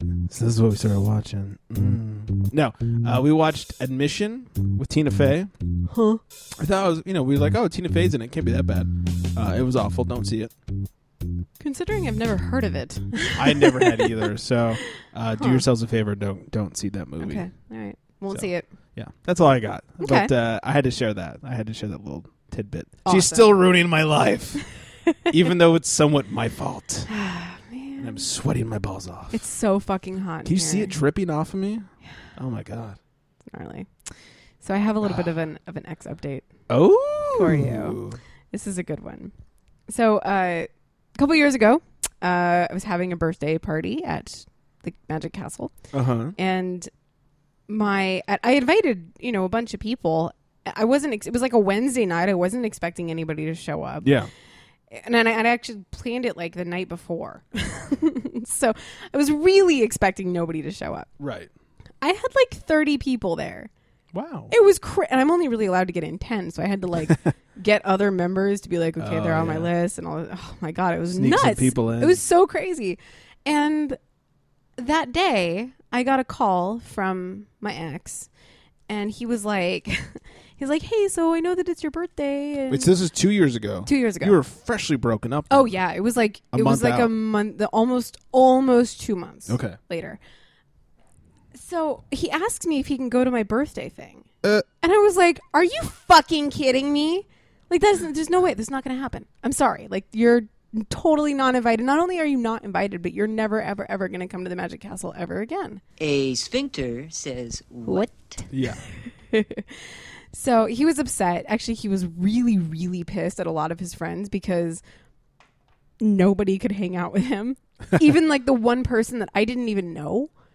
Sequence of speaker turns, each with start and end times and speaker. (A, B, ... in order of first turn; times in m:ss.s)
0:00.3-0:05.5 A
0:05.9-0:06.2 B
0:06.6-0:10.5 A
0:11.6-0:14.3 B
0:13.4-0:17.5 A
0:15.4-0:15.6 B
0:17.2-0:18.7 B
0:18.3-0:24.6 A
0:20.0-0:20.3 B
0:23.0-0:23.6 B
0:25.3-0:27.1 A
0:27.1-0:28.3 B
0:28.0-0:29.4 A
0:29.3-0:31.0 B
0:30.5-0:33.0 A
0:33.5-0:34.1 B
0:34.6-0:36.5 B
0:36.7-0:38.2 A
0:37.3-0:38.0 B
0:38.5-0:39.3 B
0:39.9-0:45.7 B
0:45.9-0:46.4 A
0:46.4-0:46.9 B
0:47.7-0:54.2 B
0:54.0-0:54.3 A
0:54.9-1:01.1 B
1:01.2-1:01.5 A
1:02.0-1:03.7 B
1:04.1-1:04.5 A
1:04.5-1:14.0 B
1:09.0-1:09.7 A
1:11.1-1:12.2 A
1:14.8-1:18.3 B
1:18.9-1:22.9 B
1:22.7-1:25.8 A
1:23.9-1:24.4 B
1:25.5-1:30.2 B
1:26.5-1:27.2 A
1:29.5-1:29.8 A
1:31.5-1:34.3 B
1:34.8-1:45.8 B
1:46.0-1:48.4 C
1:47.8-1:48.1 B
1:48.5-1:48.8 A
1:49.3-1:54.8 B
1:56.0-2:00.3 B